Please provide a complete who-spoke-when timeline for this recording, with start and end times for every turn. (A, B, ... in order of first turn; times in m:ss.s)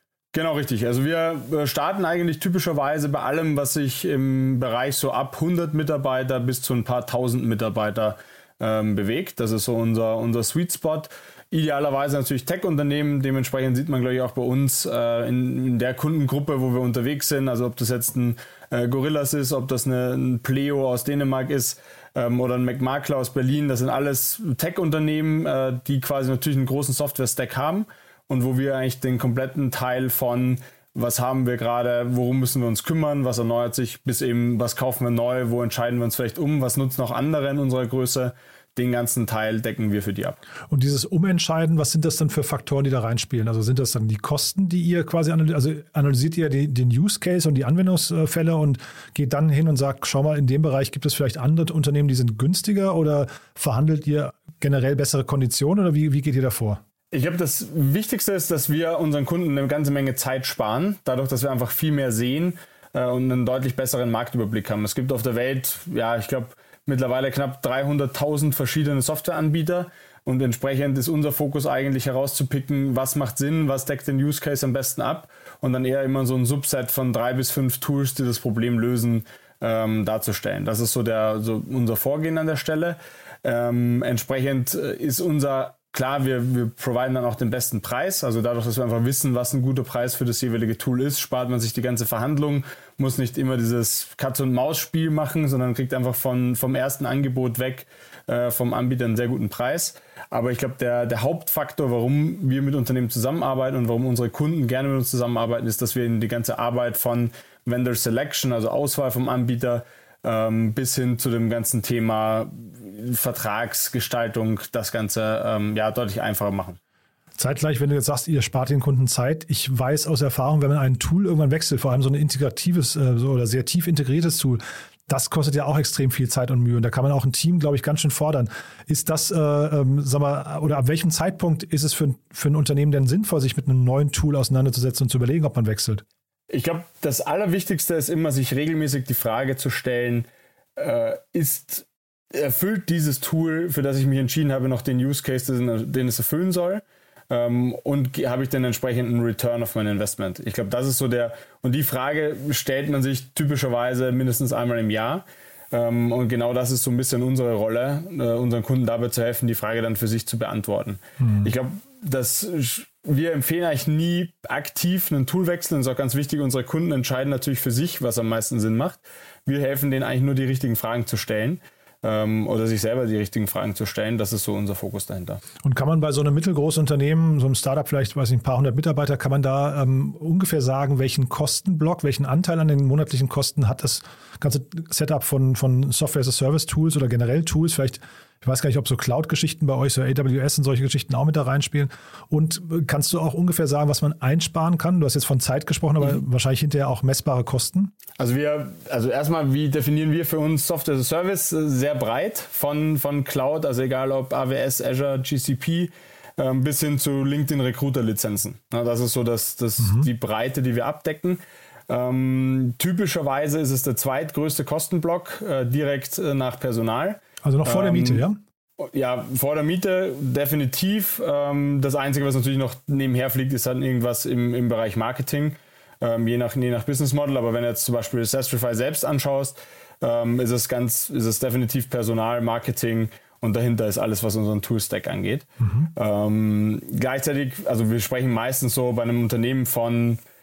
0:00.3-0:40.4 A
0:40.7-0:56.8 B
0:57.1-1:56.8 A
1:57.4-2:16.0 B
2:16.5-2:55.4 A
2:41.2-2:41.5 B
2:55.6-3:17.9 B
3:18.2-3:38.2 A
3:29.8-3:30.1 B
3:37.4-3:38.4 B
3:38.8-4:00.2 A
3:55.6-3:55.9 B